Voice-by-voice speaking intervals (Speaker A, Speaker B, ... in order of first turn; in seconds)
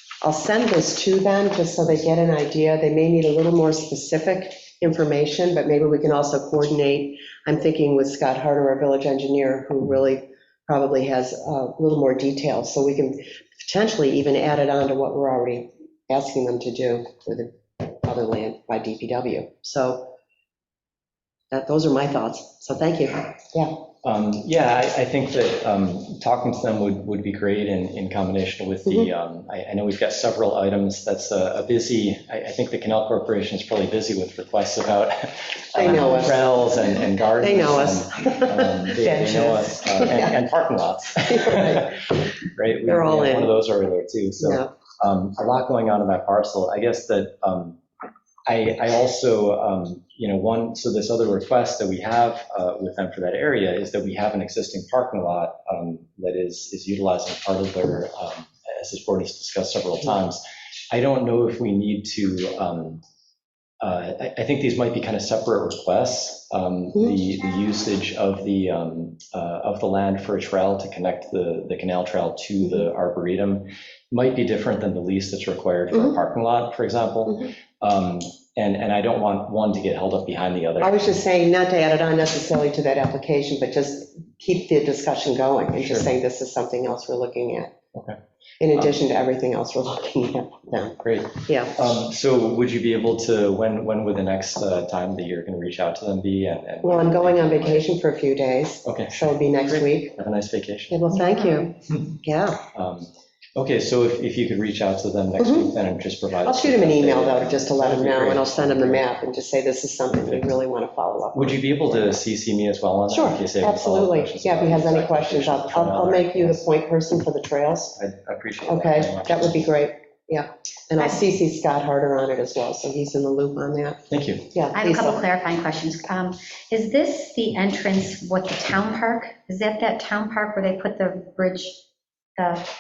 Speaker A: 0.2-20.1, 21.5-23.7, 35.8-36.6, 37.4-40.4, 41.3-42.0, 42.9-43.5, 44.4-44.7, 80.8-87.7, 88.6-91.8, 96.8-100.2, 100.9-102.6, 105.4-105.7, 106.4-112.2, 113.1-118.0, 118.7-124.0, 124.5-125.2
Speaker B: 24.0-47.8, 48.5-63.0, 63.8-81.0, 85.8-86.1, 91.0-97.9, 98.8-101.0, 102.7-109.1, 111.3-116.7, 118.0-119.7, 124.1-124.5
Speaker C: 101.1-101.7, 124.7-131.8, 132.4-132.7